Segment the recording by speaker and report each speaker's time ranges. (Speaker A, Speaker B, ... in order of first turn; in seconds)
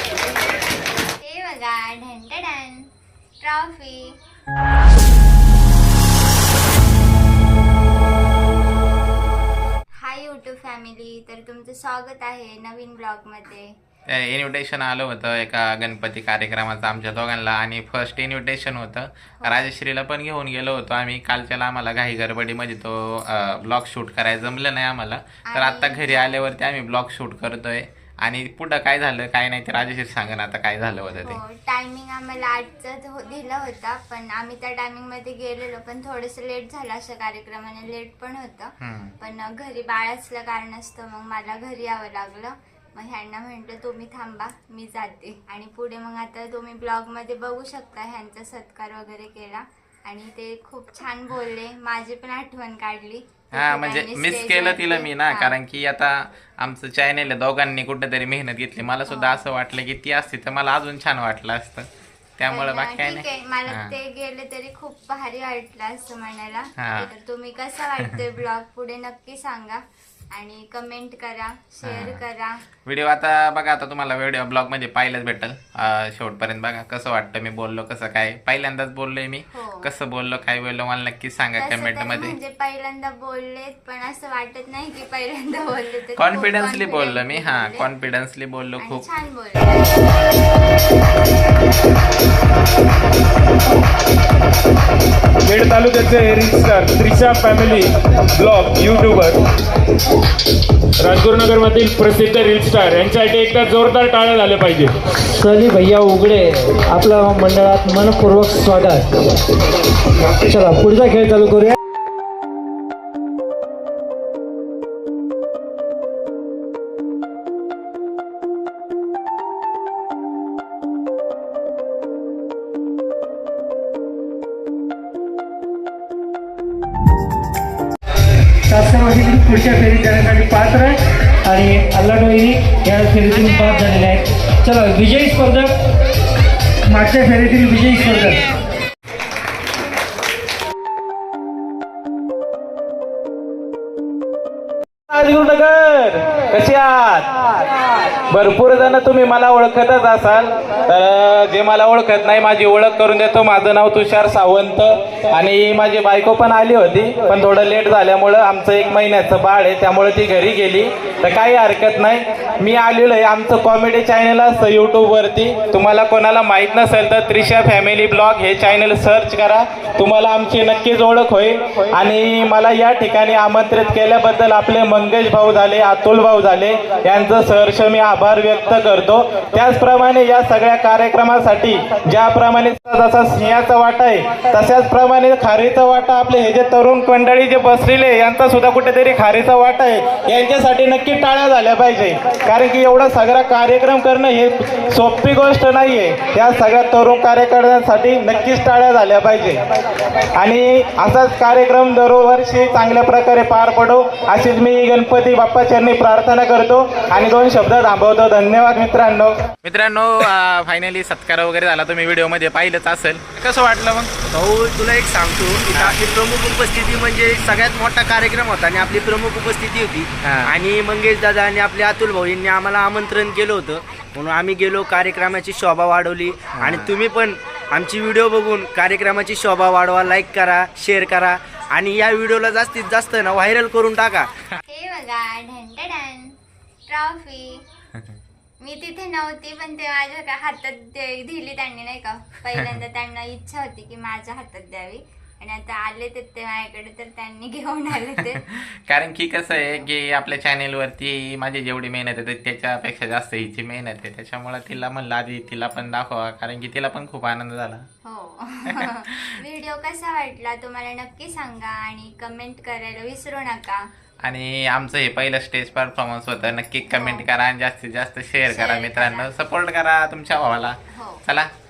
Speaker A: 1.2-2.9, 3.4-4.2, 10.0-13.7, 19.4-19.7, 25.5-26.4, 31.2-55.6, 59.1-59.4, 62.5-69.8, 70.3-72.6, 79.5-79.9, 81.6-87.9, 88.8-90.0, 234.6-236.4, 236.9-237.6, 238.6-248.4, 258.0-263.8, 266.9-267.2, 268.4-269.3, 270.9-271.2
Speaker B: 14.1-31.4, 38.8-39.1, 53.5-61.9, 62.4-63.9, 66.8-67.1, 71.8-72.2, 72.8-82.4, 86.2-89.0, 209.6-214.1, 215.7-216.0, 220.2-220.6, 226.5-226.9, 248.5-257.8, 258.7-259.4, 264.2-271.5
Speaker C: 95.5-99.4, 101.0-104.9
Speaker D: 105.3-109.2, 110.3-111.7, 128.7-135.7, 136.9-138.5
Speaker E: 145.1-147.3, 148.3-199.6, 200.4-209.3
Speaker F: 214.3-234.3